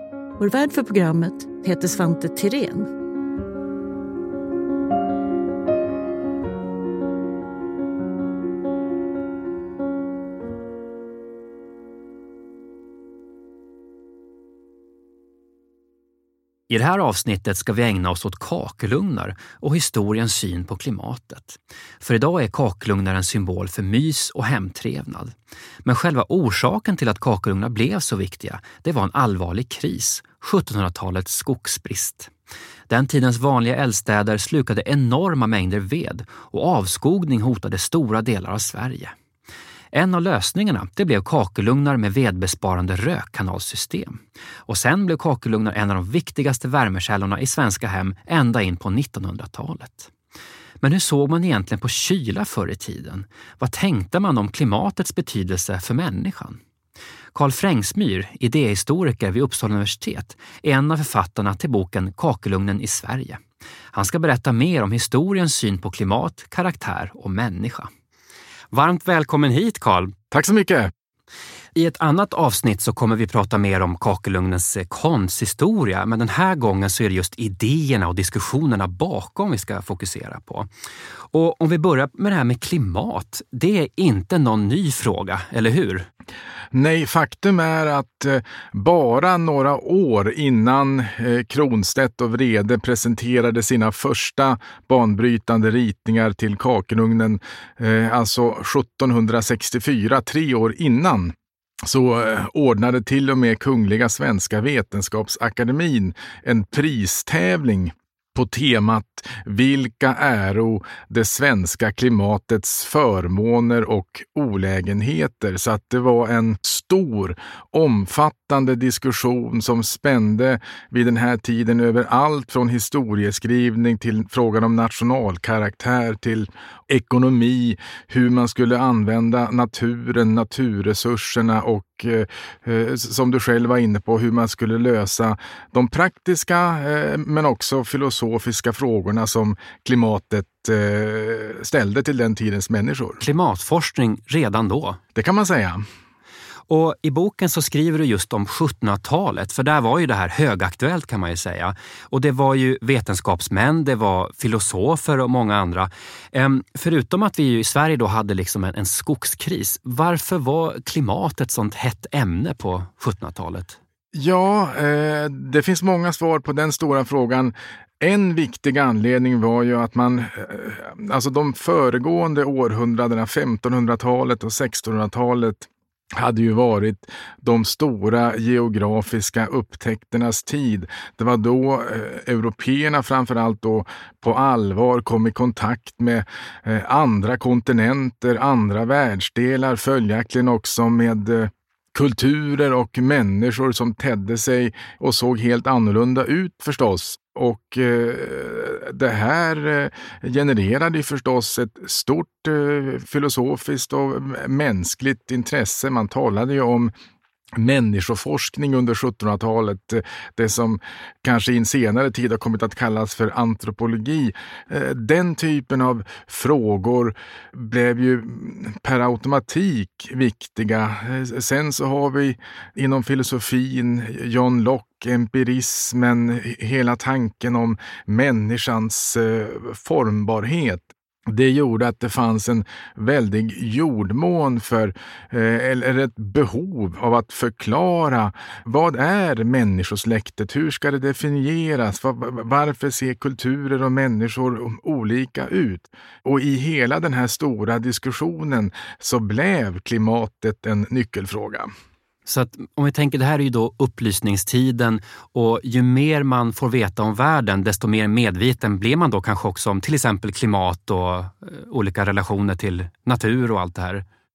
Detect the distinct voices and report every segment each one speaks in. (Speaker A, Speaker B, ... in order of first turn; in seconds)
Speaker A: 0.4-2.9
Speaker B: 16.7-32.3, 32.9-39.1, 39.9-50.1, 50.8-56.6, 57.3-63.4, 63.9-67.9, 68.7-70.1, 71.7-80.7, 81.3-86.1, 143.2-145.0, 146.7-163.8, 252.2-264.0
Speaker C: 70.3-70.9, 86.7-143.2, 145.1-145.8, 164.1-206.9, 207.6-251.7